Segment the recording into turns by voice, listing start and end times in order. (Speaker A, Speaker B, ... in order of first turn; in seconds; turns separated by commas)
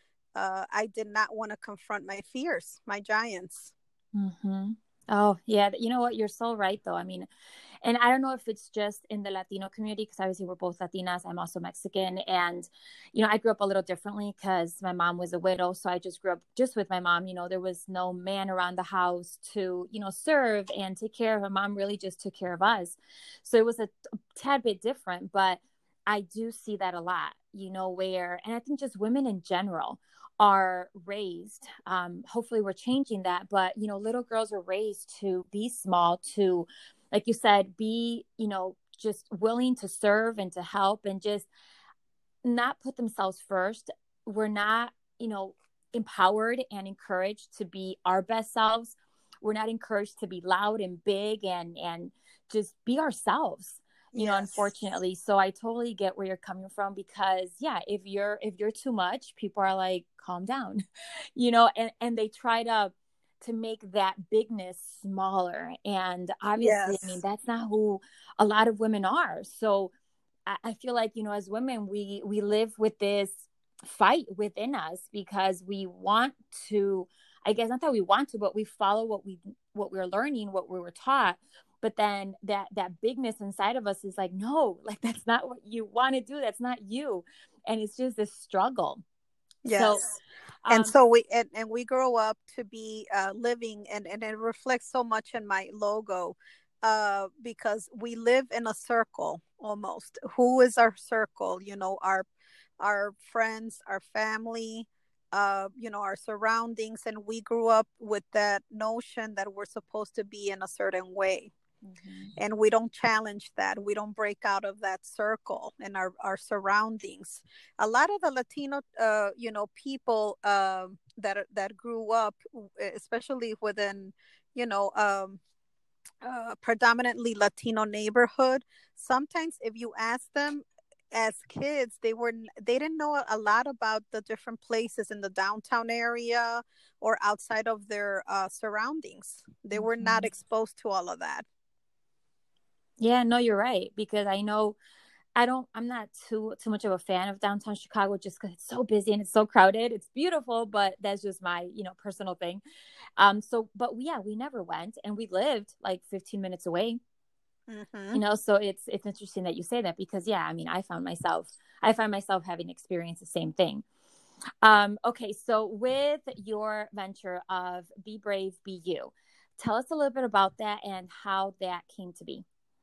Speaker A: 0.3-3.7, Speaker B: 4.2-7.3, Speaker B: 7.8-41.5, Speaker B: 42.4-60.8, Speaker A: 54.1-54.7, Speaker B: 61.4-69.9, Speaker A: 66.6-67.2, Speaker B: 70.5-89.0, Speaker A: 89.7-90.1, Speaker B: 89.7-90.1, Speaker B: 90.7-90.9, Speaker A: 90.7-102.3, Speaker A: 102.8-111.5, Speaker B: 111.9-112.3, Speaker A: 112.4-125.4, Speaker A: 126.2-141.4, Speaker B: 139.7-140.3, Speaker B: 143.0-144.8, Speaker B: 145.4-152.6, Speaker B: 153.2-157.0, Speaker A: 157.7-158.2, Speaker B: 158.1-163.8, Speaker B: 164.6-172.4